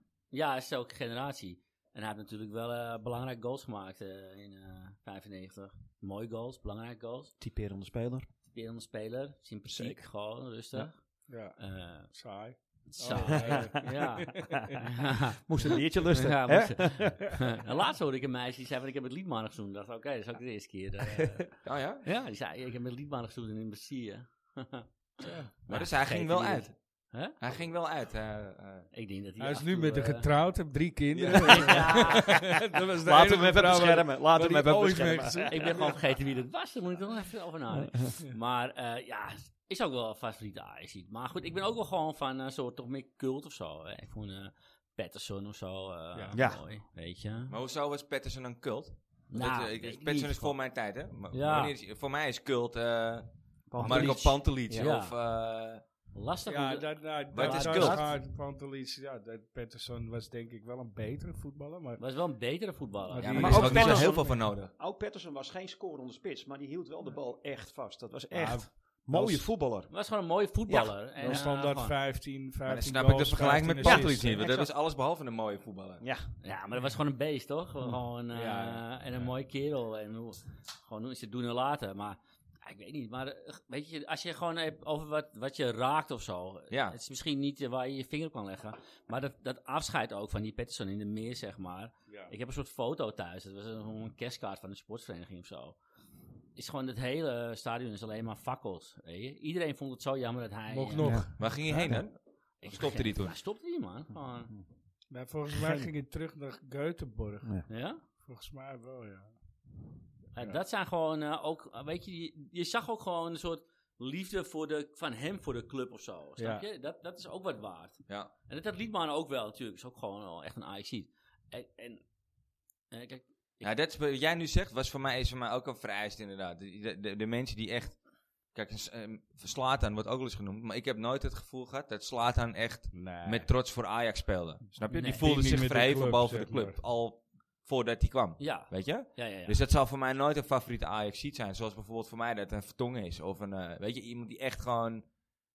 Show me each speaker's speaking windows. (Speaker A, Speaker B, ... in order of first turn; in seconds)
Speaker A: 0.3-7.3, 8.5-12.1, 12.9-15.4, 16.1-27.4, 28.9-30.3, 31.3-32.4, 35.5-47.5, 49.3-50.5, 51.3-51.7, 53.8-55.1, 56.1-58.0, 62.0-63.9, 69.9-71.9, 76.4-95.8, 96.5-101.3, 102.6-104.5, 107.7-108.0, 110.3-122.0, 122.9-123.7, 134.9-135.2, 138.4-139.6
Speaker B: 7.4-8.2, 9.7-10.0, 13.2-14.0, 15.4-17.5, 26.2-26.6, 31.2-32.2, 32.7-36.0, 37.7-38.1, 46.3-46.6, 53.7-54.9, 63.4-69.9, 70.7-71.4, 73.8-74.7, 76.0-76.3, 101.0-102.0, 105.6-105.9
Speaker C: 11.3-11.6, 12.1-14.8, 25.2-25.5, 29.4-36.0, 56.5-62.0, 63.1-64.4, 68.3-69.4, 71.2-74.4, 78.3-78.8, 100.7-101.5, 105.1-107.6, 108.2-109.3, 116.4-116.6, 132.9-133.5, 134.9-136.8
Speaker D: 21.6-22.1, 25.7-26.7, 27.4-28.9, 31.1-31.4, 47.5-55.8, 57.3-58.1, 63.2-64.7, 72.7-76.0, 86.7-87.0, 101.4-103.3, 123.6-128.0, 128.5-145.1